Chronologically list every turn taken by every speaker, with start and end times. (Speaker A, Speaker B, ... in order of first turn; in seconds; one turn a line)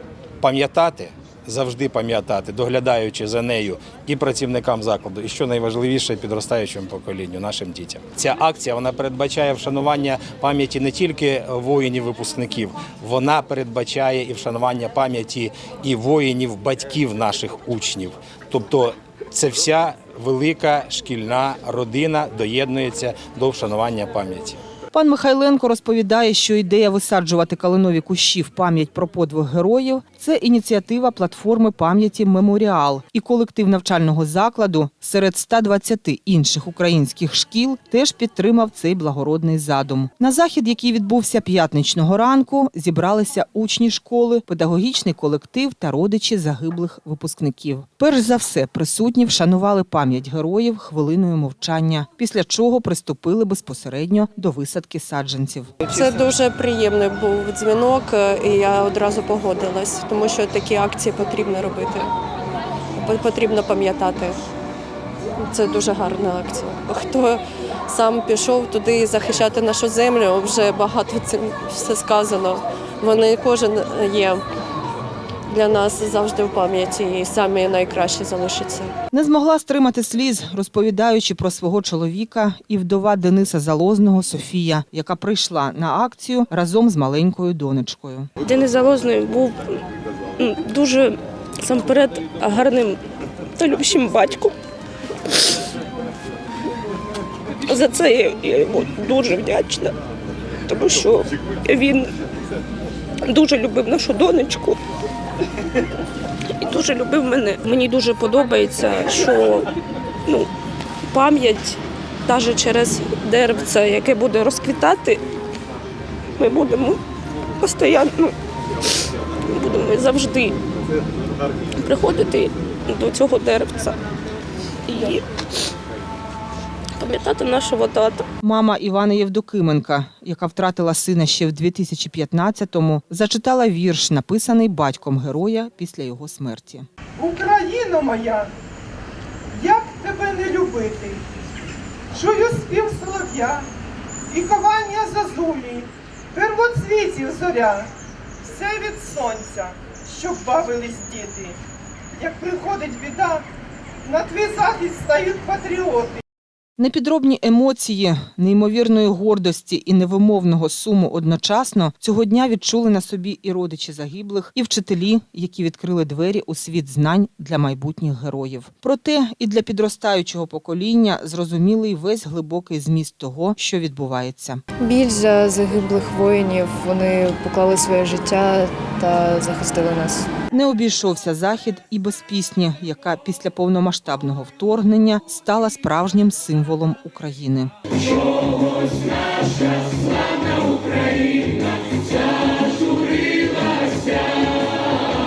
Speaker A: 0.4-24.6
Speaker B: 24.9-55.9
Speaker C: 55.9-62.1
Speaker C: 63.0-64.4
Speaker C: 65.4-74.4
Speaker C: 75.5-78.9
Speaker B: 79.1-88.3
Speaker D: 88.4-89.8
Speaker D: 90.4-93.0
Speaker D: 93.6-94.6
Speaker D: 95.2-95.6
Speaker D: 97.7-100.0
Speaker D: 100.7-102.1
Speaker D: 103.3-104.8
Speaker D: 106.5-109.7
Speaker D: 111.1-115.2
Speaker D: 116.4-117.0
Speaker D: 117.6-120.6
Speaker D: 121.8-124.0
Speaker D: 124.9-125.3
Speaker D: 127.0-128.3
Speaker B: 128.4-136.9
Speaker E: 137.2-138.5
Speaker E: 139.5-141.2
Speaker E: 142.1-143.7
Speaker E: 144.3-147.9
Speaker E: 148.4-151.6
Speaker E: 152.2-153.4
Speaker E: 154.0-156.2
Speaker B: 156.8-174.6
Speaker F: 174.8-180.3
Speaker B: 180.5-187.7